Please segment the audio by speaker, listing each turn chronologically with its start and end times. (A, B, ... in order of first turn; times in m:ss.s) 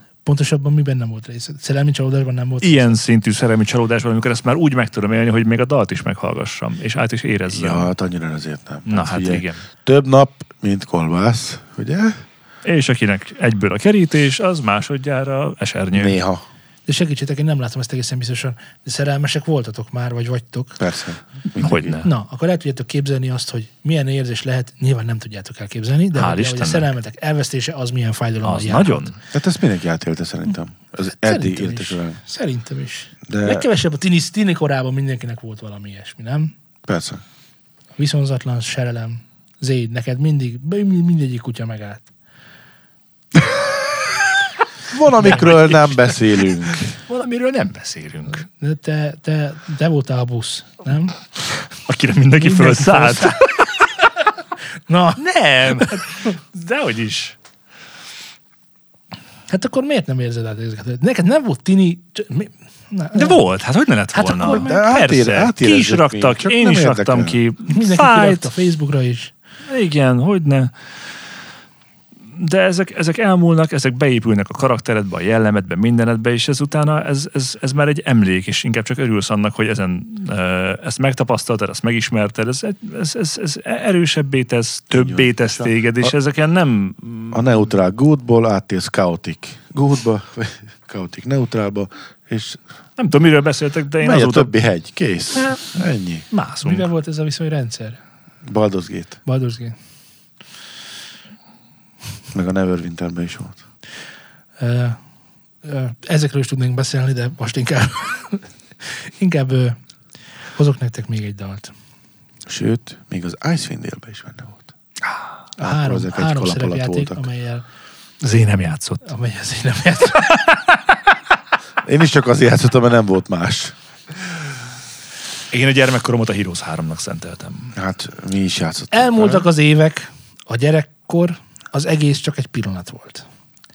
0:00.2-0:03.0 A
0:02.6-0:07.9 B
0:07.5-0:12.2 C
0:08.9-0:09.6 B
0:12.6-0:16.2 B
0:15.9-0:16.4 C
0:16.9-0:20.8 A
0:20.8-0:22.0 C
0:21.6-0:22.1 B
0:22.0-0:29.1 A
0:26.1-0:26.9 B
0:28.4-0:29.2 B
0:29.3-0:32.2 C
0:31.0-0:36.5 A
0:33.3-0:33.6 C
0:36.8-0:37.2 C
0:38.0-0:42.1 A
0:44.9-0:47.0 C
0:45.2-0:48.4 B
0:48.3-0:51.2 A
0:51.7-0:53.8 B
0:52.4-0:53.7 A
0:54.9-0:56.3 A
0:55.2-0:57.4 B
0:59.5-1:03.4 A
1:03.1-1:08.5 B
1:04.1-1:04.8 A
1:04.4-1:07.4 C
1:07.7-1:09.3 A
1:09.7-1:10.7 B
1:12.3-1:27.6 B
1:24.9-1:26.1 C
1:27.3-1:32.6 C
1:33.0-1:34.5 B
1:34.0-1:36.2 C
1:35.3-1:35.7 B
1:36.3-1:36.9 B
1:36.6-1:38.0 A
1:38.4-1:39.2 C
1:39.2-1:39.8 A
1:42.3-1:43.6 C
1:44.6-1:45.0 A
1:45.6-1:49.8 A
1:50.6-1:51.7 A
1:52.4-1:54.7 C
1:55.6-1:57.6 A
1:55.6-1:57.3 C
1:58.2-1:59.1 B
1:59.0-2:00.3 A
2:01.8-2:03.7 C
2:05.5-2:07.7 B
2:07.7-2:09.4 C
2:08.9-2:13.2 A